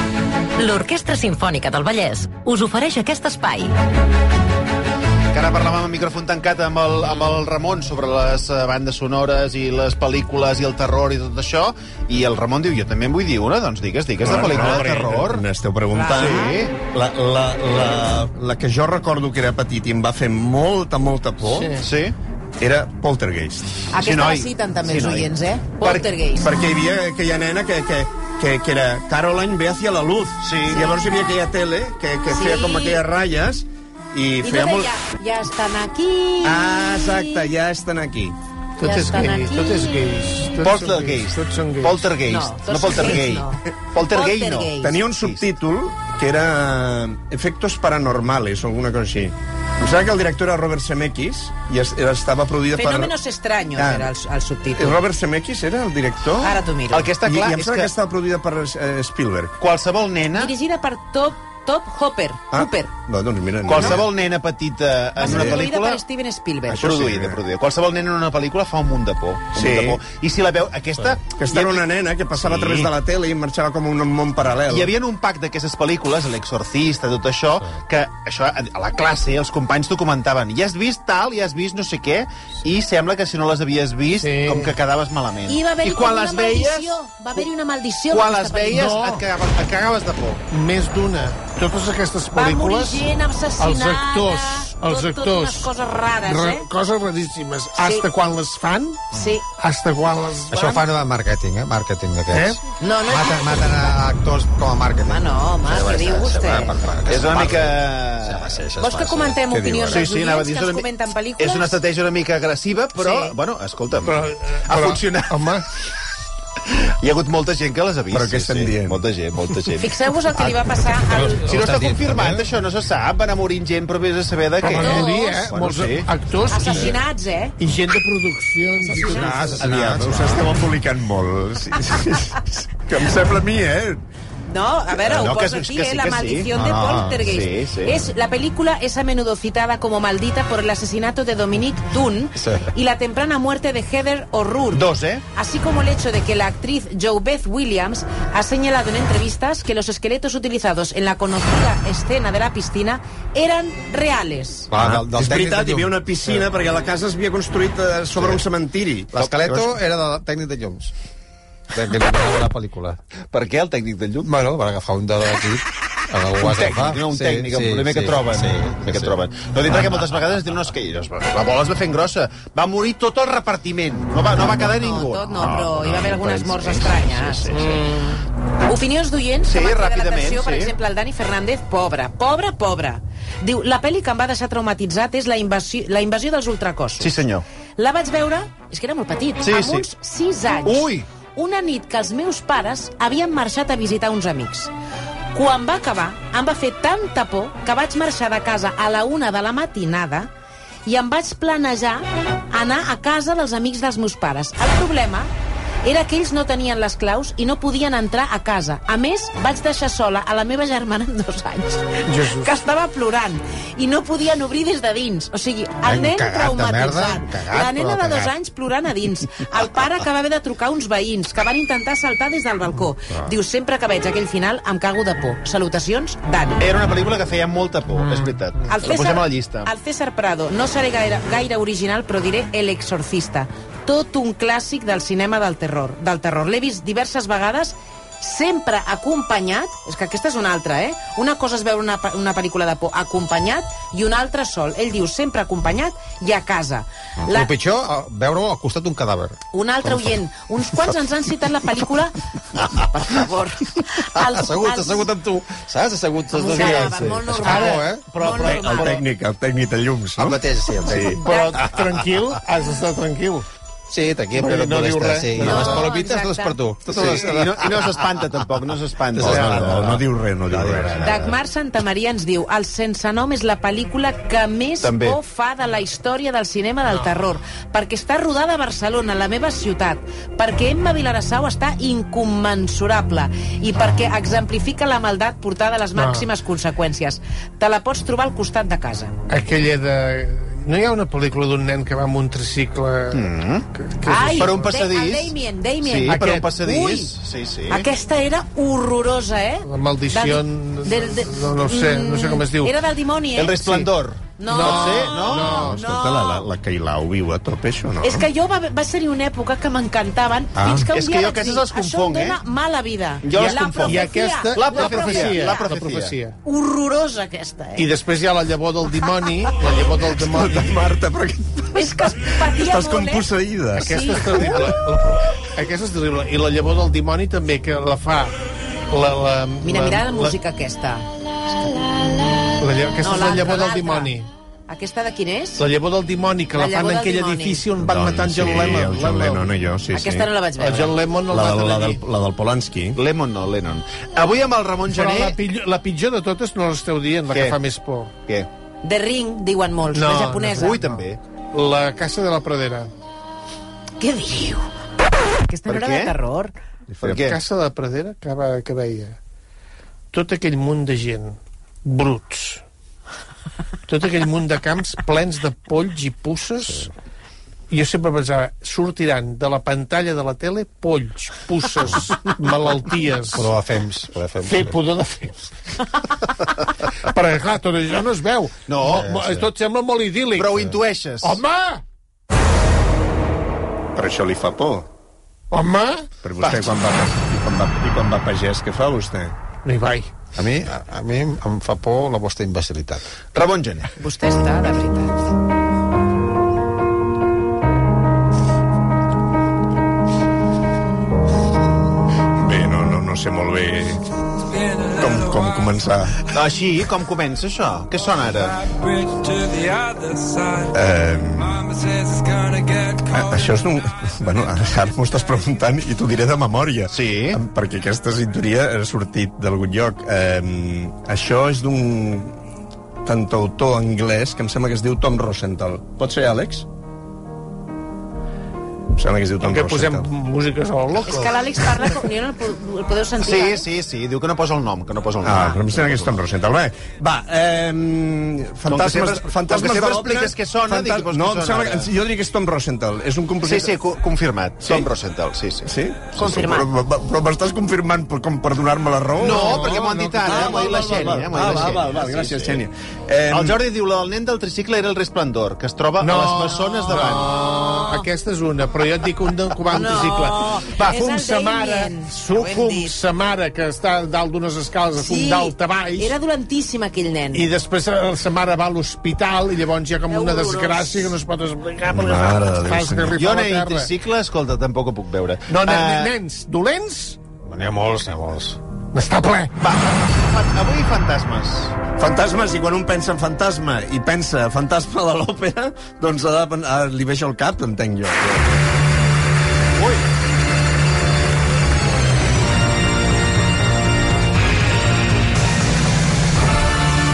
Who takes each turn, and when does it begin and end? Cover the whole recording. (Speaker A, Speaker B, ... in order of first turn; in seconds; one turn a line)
Speaker A: 0.6-3.7
Speaker B: 5.3-15.4
Speaker C: 14.2-21.8
Speaker D: 15.9-16.5
Speaker B: 16.1-16.7
Speaker E: 21.5-21.8
Speaker B: 21.8-22.1
Speaker C: 22.6-23.8
Speaker D: 23.9-26.5
Speaker B: 24.0-25.3
Speaker C: 26.4-34.9
Speaker B: 30.4-30.9
Speaker D: 32.3-33.0
Speaker D: 34.4-37.2
Speaker C: 36.4-38.4
Speaker E: 38.8-42.1
Speaker D: 38.8-40.0
Speaker B: 40.6-45.4
Speaker D: 42.3-44.9
Speaker C: 44.8-53.1
Speaker D: 52.7-55.0
Speaker C: 53.8-54.1
Speaker C: 54.7-56.6
Speaker D: 56.4-57.1
Speaker B: 56.9-57.9
Speaker C: 57.2-59.6
Speaker B: 59.6-60.5
Speaker D: 60.3-62.9
Speaker C: 62.5-64.1
Speaker B: 63.6-66.0
Speaker D: 65.2-66.9
Speaker C: 65.2-65.6
Speaker C: 66.7-67.4
Speaker B: 66.7-71.8
Speaker C: 69.5-70.0
Speaker C: 71.3-74.9
Speaker B: 72.4-72.9
Speaker B: 74.7-87.0
Speaker E: 84.2-84.7
Speaker D: 85.5-88.8
Speaker B: 88.1-90.4
Speaker E: 88.7-89.2
Speaker E: 90.5-95.7
Speaker D: 92.3-96.7
Speaker E: 96.2-100.8
Speaker D: 97.8-98.0
Speaker D: 99.1-99.4
Speaker F: 100.5-110.1
Speaker E: 102.3-102.6
Speaker D: 102.8-104.0
Speaker D: 105.0-106.7
Speaker B: 107.0-108.6
Speaker D: 108.8-111.8
Speaker B: 109.9-110.9
Speaker B: 111.4-115.5
Speaker D: 113.0-113.3
Speaker E: 114.0-115.7
Speaker B: 116.6-120.0
Speaker C: 118.1-119.0
Speaker D: 119.8-121.6
Speaker F: 121.1-122.5
Speaker B: 121.4-127.0
Speaker E: 124.6-127.0
Speaker D: 124.8-125.4
Speaker D: 126.5-127.5
Speaker E: 127.6-129.7
Speaker D: 128.8-129.6
Speaker F: 128.9-130.4
Speaker C: 129.6-134.0
Speaker D: 134.5-154.7
Speaker B: 135.0-136.5
Speaker F: 136.5-137.3
Speaker B: 137.2-138.0
Speaker F: 142.4-142.7
Speaker B: 144.7-145.2
Speaker F: 154.7-156.5
Speaker C: 154.7-159.7
Speaker F: 158.2-158.4
Speaker F: 159.1-160.9
Speaker F: 161.7-163.0
Speaker B: 163.3-164.3
Speaker F: 164.2-169.2
Speaker B: 166.4-177.7
Speaker F: 169.7-169.9
Speaker D: 174.5-177.8
Speaker E: 177.5-178.2
Speaker D: 178.6-187.1
Speaker B: 179.4-180.7
Speaker B: 187.0-187.4
Speaker D: 187.8-194.7
Speaker B: 189.4-189.8
Speaker B: 190.6-191.1
Speaker D: 195.3-200.3
Speaker D: 200.8-205.3
Speaker D: 205.8-226.6
Speaker E: 212.1-212.5
Speaker F: 215.8-218.3
Speaker B: 226.6-229.7
Speaker E: 228.0-228.3
Speaker D: 228.7-247.5
Speaker F: 247.3-250.2
Speaker D: 249.5-255.1
Speaker F: 254.2-258.5
Speaker D: 256.3-259.0
Speaker E: 256.6-256.9
Speaker E: 257.4-259.0
Speaker C: 258.2-261.2
Speaker F: 260.2-261.2
Speaker E: 261.0-263.4
Speaker D: 261.2-261.6
Speaker F: 263.9-267.9
Speaker E: 264.3-265.9
Speaker D: 265.4-266.6
Speaker B: 266.9-269.9
Speaker F: 269.1-271.3
Speaker C: 269.2-271.1
Speaker E: 269.2-269.6
Speaker D: 271.0-289.1
Speaker B: 274.8-275.2
Speaker E: 285.9-286.2
Speaker E: 289.3-294.7
Speaker B: 293.1-293.7
Speaker D: 294.0-297.1
Speaker B: 294.4-297.9
Speaker E: 296.1-296.5
Speaker D: 297.7-303.6
Speaker E: 299.6-302.7
Speaker B: 303.4-305.5
Speaker E: 303.6-303.9
Speaker D: 304.4-306.5
Speaker E: 304.4-305.8
Speaker C: 305.5-308.3
Speaker D: 308.0-315.6
Speaker C: 310.6-310.9
Speaker B: 310.7-312.4
Speaker B: 313.2-316.1
Speaker E: 313.9-316.4
Speaker D: 316.4-317.9
Speaker E: 317.8-320.7
Speaker C: 320.2-324.8
Speaker D: 321.7-324.6
Speaker E: 323.8-328.4
Speaker E: 328.9-330.4
Speaker D: 329.6-331.9
Speaker E: 332.6-334.3
Speaker D: 333.0-334.1
Speaker D: 334.7-335.6
Speaker E: 335.6-339.4
Speaker D: 336.6-337.6
Speaker C: 337.8-340.3
Speaker D: 339.9-341.0
Speaker E: 340.6-342.0
Speaker C: 341.3-343.0
Speaker B: 342.9-345.4
Speaker E: 344.9-348.1
Speaker B: 347.3-347.6
Speaker D: 348.8-350.8
Speaker E: 349.9-352.9
Speaker B: 350.2-351.2
Speaker D: 354.0-354.6
Speaker D: 355.4-356.5
Speaker B: 355.7-356.1
Speaker C: 356.9-357.2
Speaker B: 357.0-357.4
Speaker E: 357.1-359.2
Speaker E: 360.1-362.6
Speaker E: 363.9-366.9
Speaker E: 367.7-373.5
Speaker F: 373.3-374.7
Speaker E: 374.4-375.4
Speaker E: 377.0-381.8
Speaker B: 378.7-379.1
Speaker F: 378.9-379.5
Speaker B: 380.3-381.4
Speaker C: 383.9-384.9
Speaker E: 385.5-386.1
Speaker C: 386.2-389.3
Speaker B: 386.4-386.6
Speaker E: 389.6-390.1
Speaker F: 390.4-393.0
Speaker B: 393.3-393.9
Speaker D: 393.9-395.1
Speaker C: 402.4-406.2
Speaker B: 406.2-408.7
Speaker G: 409.1-410.3
Speaker C: 410.6-411.8
Speaker G: 411.8-412.9
Speaker C: 412.9-422.4
Speaker B: 416.9-417.4
Speaker C: 423.0-426.7
Speaker C: 428.9-430.1
Speaker E: 429.4-431.9
Speaker D: 431.0-433.6
Speaker B: 433.2-436.1
Speaker C: 435.2-443.7
Speaker B: 438.7-441.9
Speaker B: 443.4-445.7
Speaker C: 444.6-444.9
Speaker C: 445.6-453.6
Speaker D: 446.1-446.7
Speaker B: 449.2-452.6
Speaker E: 449.2-450.6
Speaker B: 453.3-457.5
Speaker E: 456.0-466.1
Speaker D: 456.5-458.1
Speaker D: 459.7-462.9
Speaker D: 465.0-467.5
Speaker E: 467.3-473.9
Speaker D: 470.1-471.1
Speaker C: 471.8-473.2
Speaker B: 473.1-476.1
Speaker E: 475.5-477.2
Speaker F: 477.4-478.6
Speaker E: 478.9-479.5
Speaker B: 479.6-481.8
Speaker C: 482.0-488.7
Speaker B: 489.7-490.1